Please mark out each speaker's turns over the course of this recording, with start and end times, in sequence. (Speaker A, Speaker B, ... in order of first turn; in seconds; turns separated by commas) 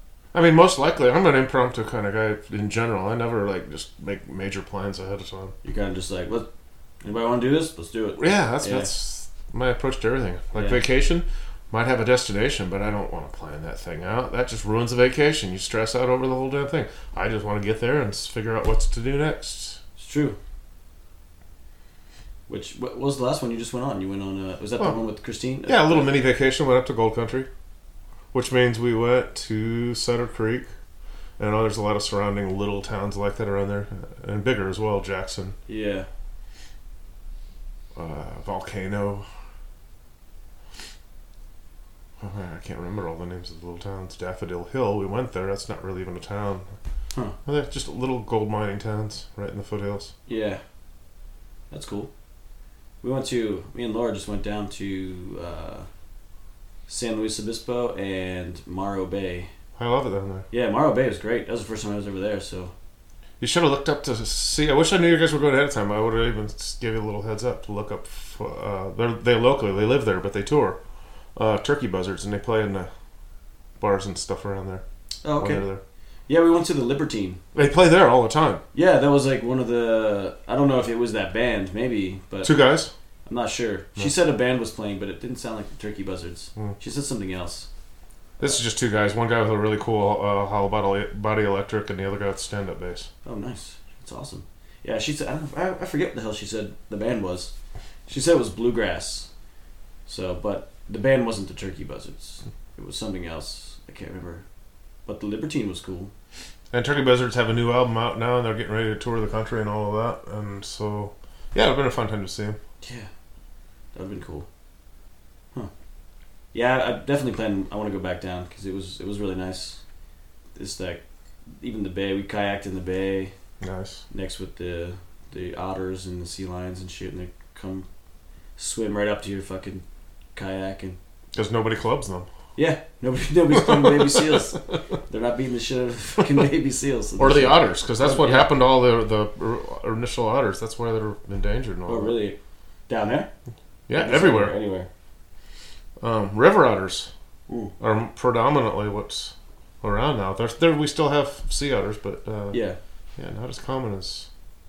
Speaker A: 0.3-5.5, Speaker B: 5.6-6.5, Speaker B: 7.0-8.9, Speaker A: 8.2-19.8, Speaker B: 10.5-10.8, Speaker B: 20.0-20.4, Speaker B: 22.5-26.1, Speaker A: 25.6-27.5, Speaker A: 28.3-30.7, Speaker A: 31.4-35.5, Speaker B: 35.7-36.1, Speaker A: 37.9-39.3, Speaker A: 42.2-46.7, Speaker A: 47.5-50.1, Speaker B: 50.3-50.6, Speaker B: 51.7-52.1, Speaker B: 53.0-55.9, Speaker B: 56.9-59.5, Speaker A: 59.8-60.5, Speaker B: 60.5-62.7, Speaker A: 63.4-70.8, Speaker A: 71.3-72.9, Speaker A: 73.8-74.8, Speaker B: 75.2-75.6, Speaker A: 75.4-75.8, Speaker B: 76.3-77.4, Speaker A: 77.5-78.6, Speaker B: 78.7-82.5, Speaker A: 82.4-82.9, Speaker B: 83.2-87.7, Speaker A: 88.4-93.1, Speaker B: 93.2-97.5, Speaker B: 98.1-99.3, Speaker B: 100.1-104.4, Speaker B: 105.0-106.1, Speaker A: 106.7-112.6, Speaker B: 112.8-113.1, Speaker B: 113.9-114.5, Speaker B: 116.5-119.8, Speaker B: 120.5-121.0, Speaker B: 121.6-123.3, Speaker A: 123.6-124.0, Speaker B: 124.1-127.9, Speaker B: 128.6-129.8, Speaker B: 130.3-131.0, Speaker A: 131.3-132.3, Speaker B: 132.6-138.5, Speaker A: 133.5-134.8, Speaker A: 137.2-142.2, Speaker B: 141.9-142.4, Speaker B: 142.9-143.3, Speaker A: 143.9-144.6, Speaker B: 143.9-144.9, Speaker A: 146.0-147.1, Speaker B: 147.5-147.7, Speaker A: 147.8-152.6, Speaker B: 152.5-152.8, Speaker A: 153.2-154.3